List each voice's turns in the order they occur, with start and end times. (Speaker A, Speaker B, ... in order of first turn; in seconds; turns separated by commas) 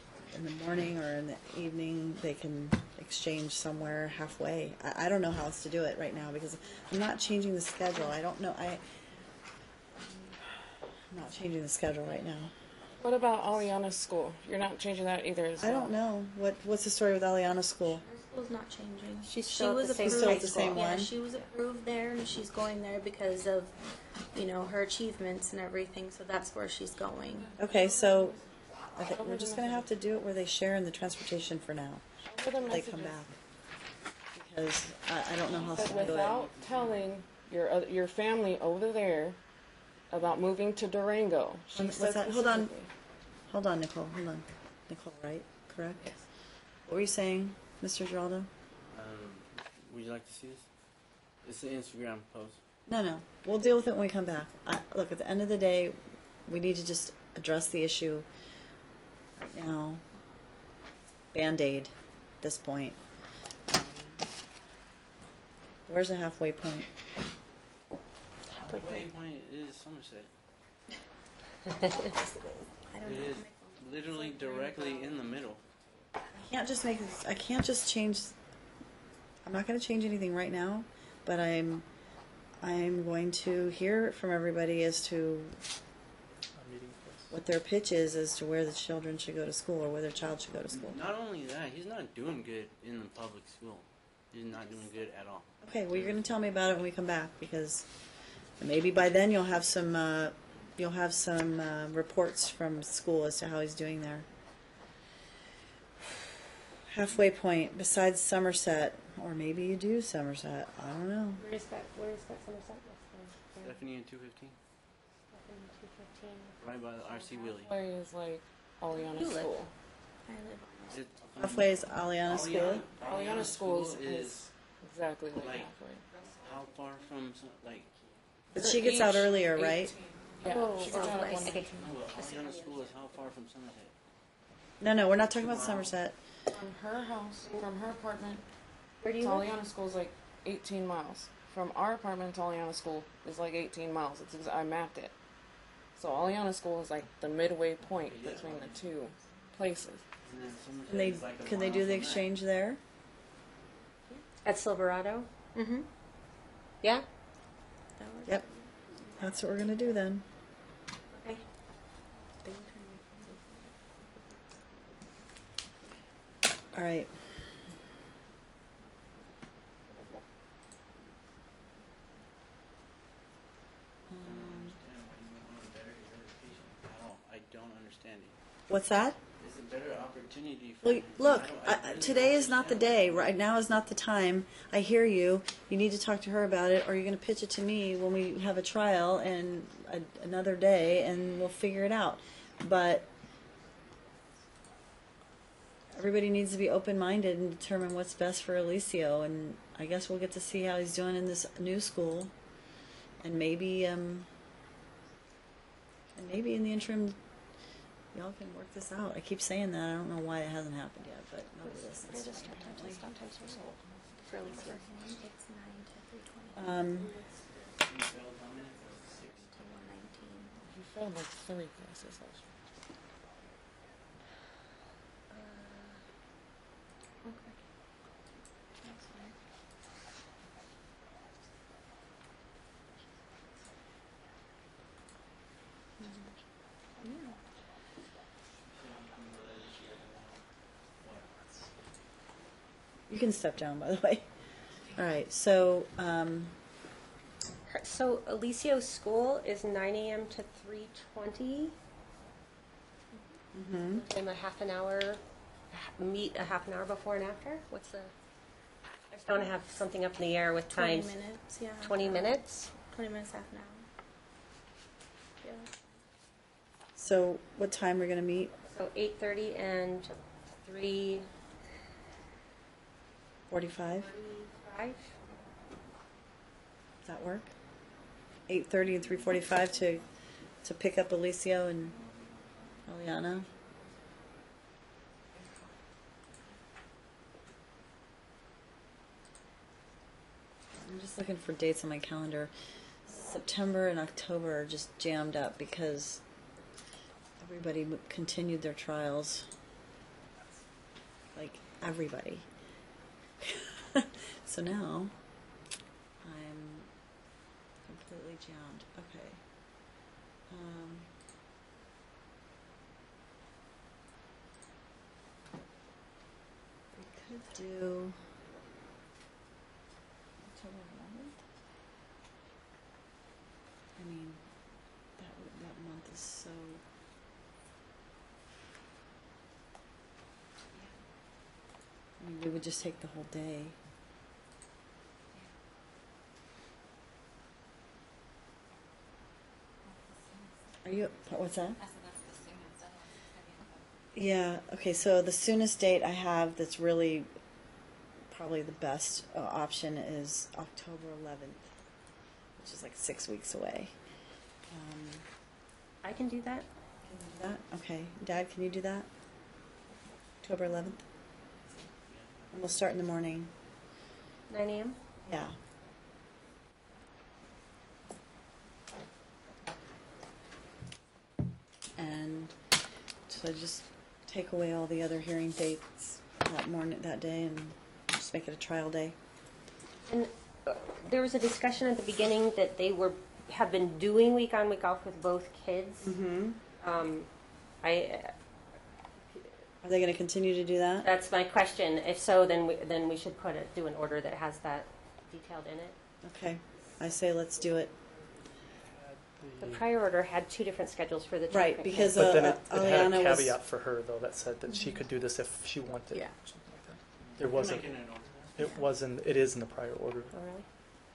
Speaker A: 0.3-8.8, Speaker A: 11.1-12.5, Speaker B: 13.0-15.9, Speaker A: 15.6-18.0, Speaker C: 18.0-23.8, Speaker D: 19.2-20.8, Speaker A: 19.5-21.1, Speaker C: 24.3-27.5, Speaker A: 27.6-28.4, Speaker B: 27.7-28.4, Speaker A: 28.9-32.1, Speaker B: 29.0-29.9, Speaker B: 32.2-33.1, Speaker A: 32.6-33.4, Speaker A: 34.3-36.4, Speaker E: 35.4-37.1, Speaker B: 35.7-39.4, Speaker B: 40.1-42.9, Speaker A: 41.7-42.7, Speaker A: 43.5-46.1, Speaker A: 46.9-48.5, Speaker E: 48.9-50.7, Speaker E: 51.4-52.6, Speaker A: 52.9-58.3, Speaker A: 59.4-60.0, Speaker A: 61.3-63.0, Speaker A: 65.9-66.9, Speaker E: 68.5-70.3, Speaker C: 71.8-75.1, Speaker E: 73.0-75.6, Speaker A: 76.3-78.3, Speaker A: 79.4-81.9, Speaker A: 82.6-85.6, Speaker F: 86.5-87.3, Speaker A: 87.3-91.0, Speaker E: 90.7-96.2, Speaker A: 95.6-97.9, Speaker A: 98.6-104.2, Speaker A: 106.9-111.4, Speaker D: 111.4-113.8, Speaker E: 113.6-114.5, Speaker D: 115.3-116.6, Speaker E: 116.6-117.7, Speaker B: 117.5-119.7, Speaker D: 119.0-119.5, Speaker C: 120.2-121.0, Speaker E: 120.9-124.5, Speaker A: 121.4-122.9, Speaker B: 123.0-126.1, Speaker E: 125.3-128.0, Speaker A: 128.5-129.9, Speaker B: 128.5-131.9, Speaker D: 130.4-131.7, Speaker E: 131.7-133.9, Speaker A: 134.8-136.2, Speaker E: 135.2-135.9, Speaker B: 136.5-138.4, Speaker D: 139.0-139.5, Speaker B: 139.2-145.1, Speaker B: 145.9-150.0, Speaker E: 147.9-148.8, Speaker E: 150.2-152.3, Speaker A: 150.9-152.8, Speaker D: 154.4-155.3, Speaker C: 155.5-155.9, Speaker C: 158.0-159.4, Speaker A: 159.2-160.2, Speaker C: 161.1-161.4, Speaker C: 162.4-163.7, Speaker A: 166.7-167.1, Speaker A: 174.1-174.8, Speaker E: 174.2-178.3, Speaker A: 178.7-179.2, Speaker E: 179.4-183.3, Speaker A: 180.8-193.1, Speaker A: 195.9-202.3, Speaker A: 203.2-204.3, Speaker A: 206.1-207.2, Speaker A: 208.1-213.1, Speaker B: 212.1-213.8, Speaker C: 214.2-217.2, Speaker E: 214.4-214.9, Speaker A: 216.5-217.1, Speaker E: 217.5-219.7, Speaker C: 219.5-220.6, Speaker B: 220.6-222.5, Speaker D: 225.3-225.9, Speaker C: 227.2-227.6, Speaker C: 228.8-229.3, Speaker C: 236.0-236.3, Speaker C: 237.0-237.4, Speaker E: 238.7-240.4, Speaker E: 241.0-241.7, Speaker A: 243.1-244.2, Speaker A: 244.9-246.6, Speaker D: 247.7-251.7, Speaker A: 253.5-254.0, Speaker D: 253.9-258.1, Speaker D: 259.1-261.1, Speaker C: 260.7-263.9, Speaker D: 261.8-262.7, Speaker C: 265.4-265.9, Speaker A: 266.9-268.5, Speaker D: 268.7-270.1, Speaker D: 270.6-271.3, Speaker A: 273.5-274.1, Speaker D: 274.0-275.1, Speaker A: 277.0-277.5, Speaker A: 278.5-280.1, Speaker A: 280.6-282.0, Speaker A: 282.9-283.5, Speaker A: 290.8-292.5, Speaker A: 293.1-296.2, Speaker A: 297.4-299.5, Speaker A: 301.3-302.5, Speaker A: 303.4-305.1, Speaker A: 306.2-306.9, Speaker A: 307.9-309.4, Speaker A: 310.5-311.1, Speaker A: 316.9-318.2, Speaker A: 320.4-321.4, Speaker A: 323.9-324.4, Speaker A: 325.2-326.8, Speaker A: 332.2-333.8, Speaker A: 340.8-341.8, Speaker A: 344.1-347.3, Speaker A: 348.3-351.7, Speaker A: 352.6-353.9, Speaker A: 354.7-355.2, Speaker D: 356.0-356.6, Speaker A: 357.1-359.1, Speaker A: 360.4-361.0, Speaker E: 362.1-362.6, Speaker A: 362.5-363.5, Speaker D: 364.5-365.0, Speaker A: 365.2-365.6, Speaker A: 371.9-372.6, Speaker A: 373.3-379.1, Speaker D: 380.1-386.1, Speaker A: 386.0-386.6, Speaker D: 386.8-387.3, Speaker D: 387.8-388.3, Speaker A: 389.8-391.1, Speaker D: 391.0-395.9, Speaker A: 396.2-397.9, Speaker F: 398.9-399.8, Speaker D: 399.6-402.3, Speaker A: 401.5-403.5, Speaker F: 402.1-408.0, Speaker E: 407.2-408.6, Speaker F: 408.6-410.3, Speaker D: 410.3-410.6